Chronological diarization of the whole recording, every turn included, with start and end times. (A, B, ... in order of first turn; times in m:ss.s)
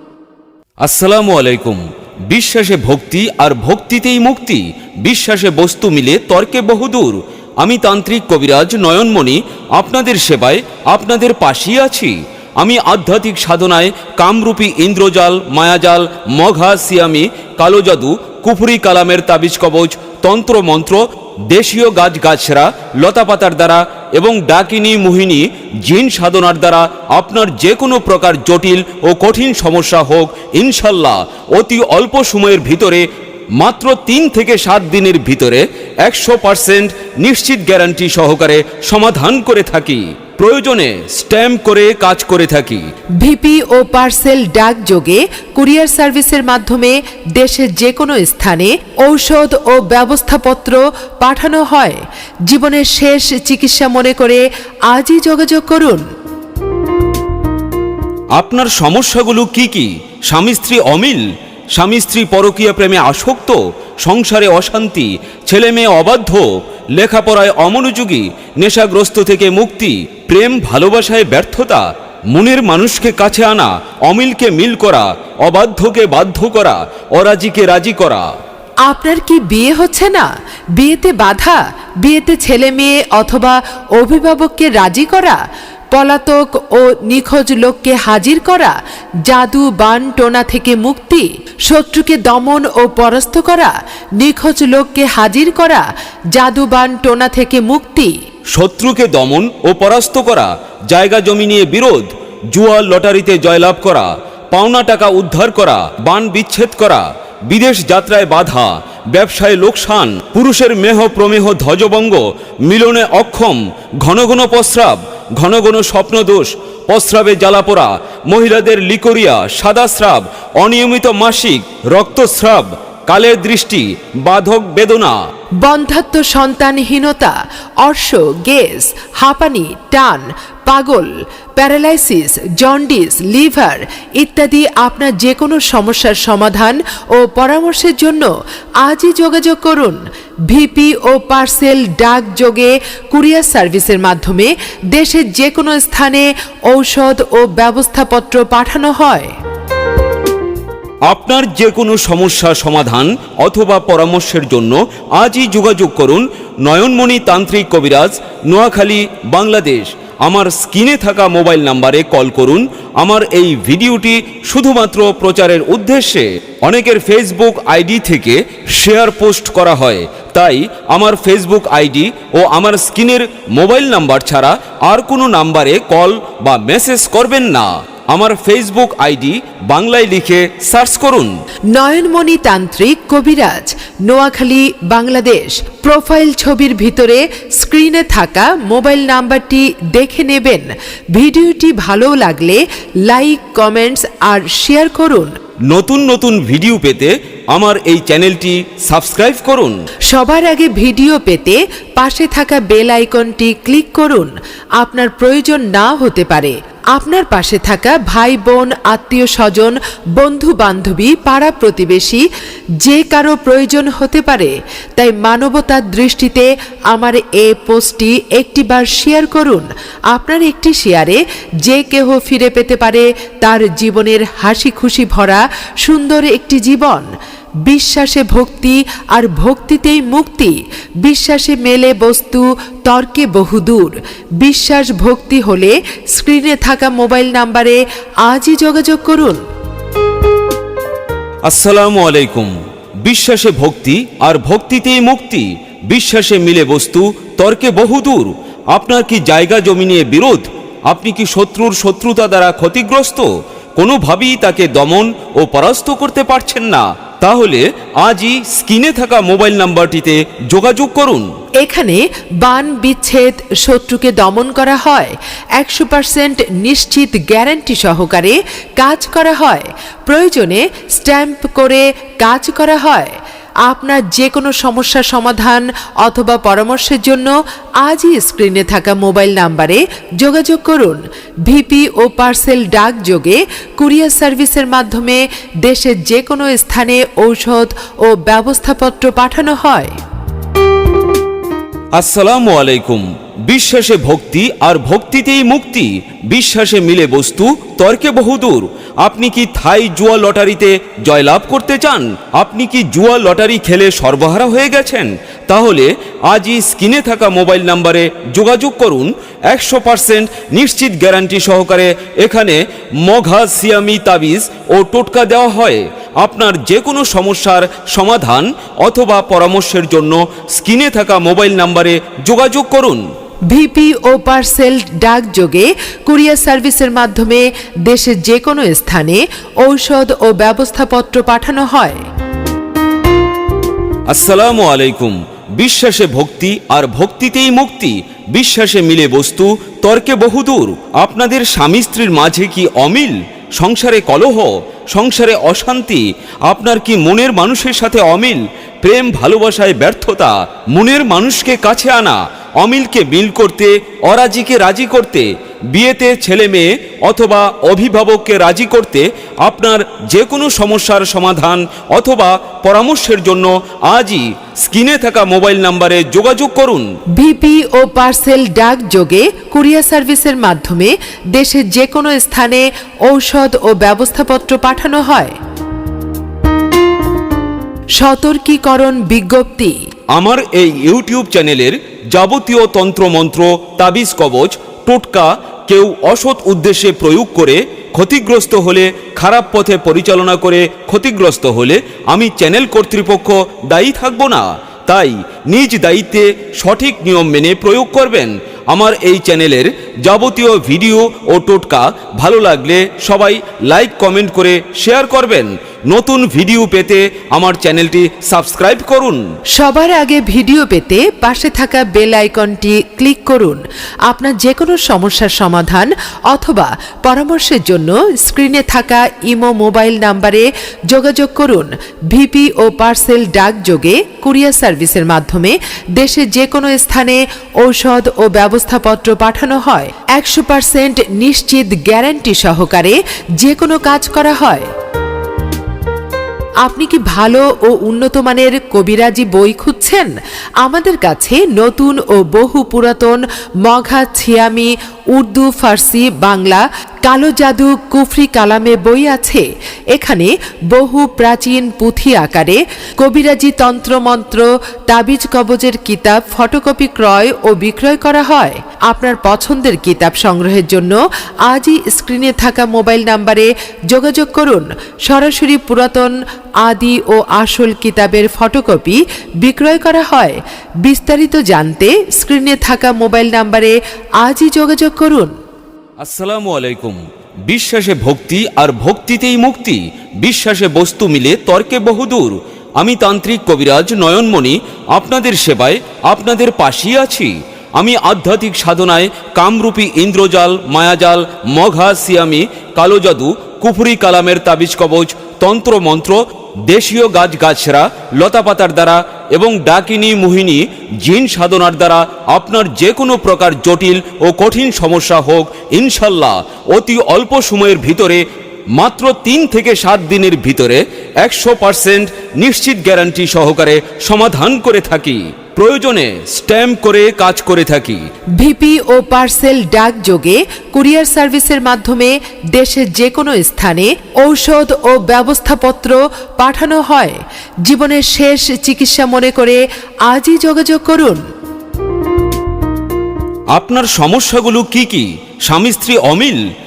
0:00.8-0:33.0 A
0:33.6-0:42.8 A
0:43.2-0:56.0 B
0:58.4-1:01.2 A
1:01.8-1:18.3 A
1:18.9-1:25.4 B
1:25.9-1:28.8 B
1:29.3-1:38.1 B
1:38.6-2:05.2 A
2:05.6-2:18.3 B
2:18.8-2:29.3 B
2:31.1-3:01.3 A
3:01.7-3:15.4 B
3:15.7-3:19.8 A
3:20.1-3:32.2 B
3:32.8-3:47.1 B
3:47.6-3:59.4 B
4:01.5-4:21.3 A
4:21.6-4:37.3 B
4:37.8-4:50.0 B
4:52.0-5:23.0 A
5:23.5-5:32.0 B
5:34.1-6:06.9 A
6:07.2-6:15.4 B
6:18.0-6:19.7 B
6:20.1-6:49.2 A
6:49.6-7:14.7 B
7:16.6-7:55.3 B
7:56.0-8:28.2 A
8:28.7-8:38.1 A
8:38.4-8:51.2 B
8:53.5-8:56.4 A